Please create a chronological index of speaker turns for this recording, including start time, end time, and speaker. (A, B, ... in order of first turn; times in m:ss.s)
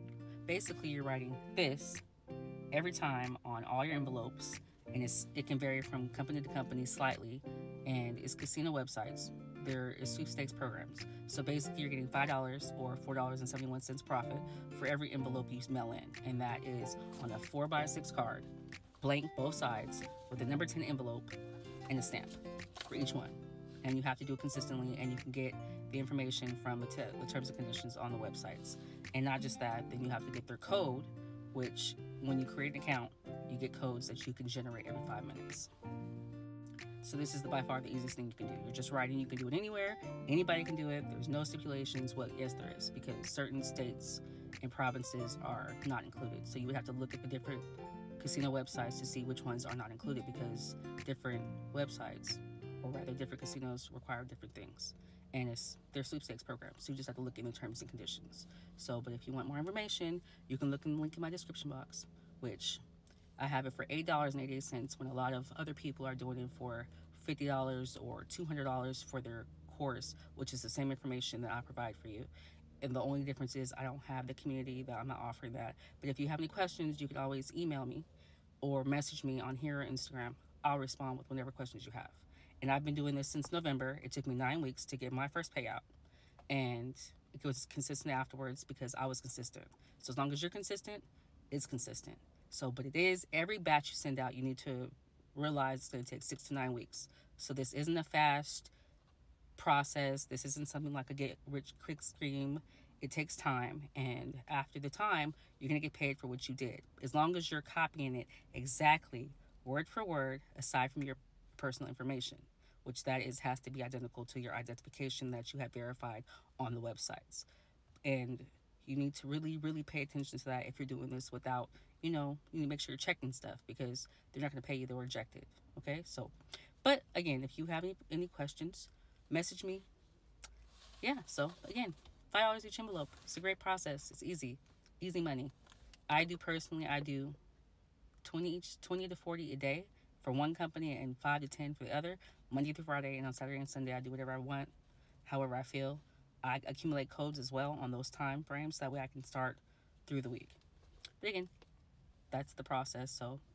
0:00.5-0:02.0 A
0:02.7-0:18.5 A
0:19.0-0:21.4 A
0:21.9-0:35.7 A
0:37.0-0:47.7 A
0:48.2-1:02.8 A
1:03.4-1:12.3 A
1:12.8-1:18.1 A
1:18.6-1:25.9 A
1:26.5-1:38.7 A
1:39.6-1:57.5 A
1:58.0-2:09.9 A
2:11.0-2:15.5 A
2:16.1-2:17.4 A
2:18.2-2:24.7 A
2:25.2-2:30.6 A
2:31.2-2:31.5 A
2:32.3-2:33.4 A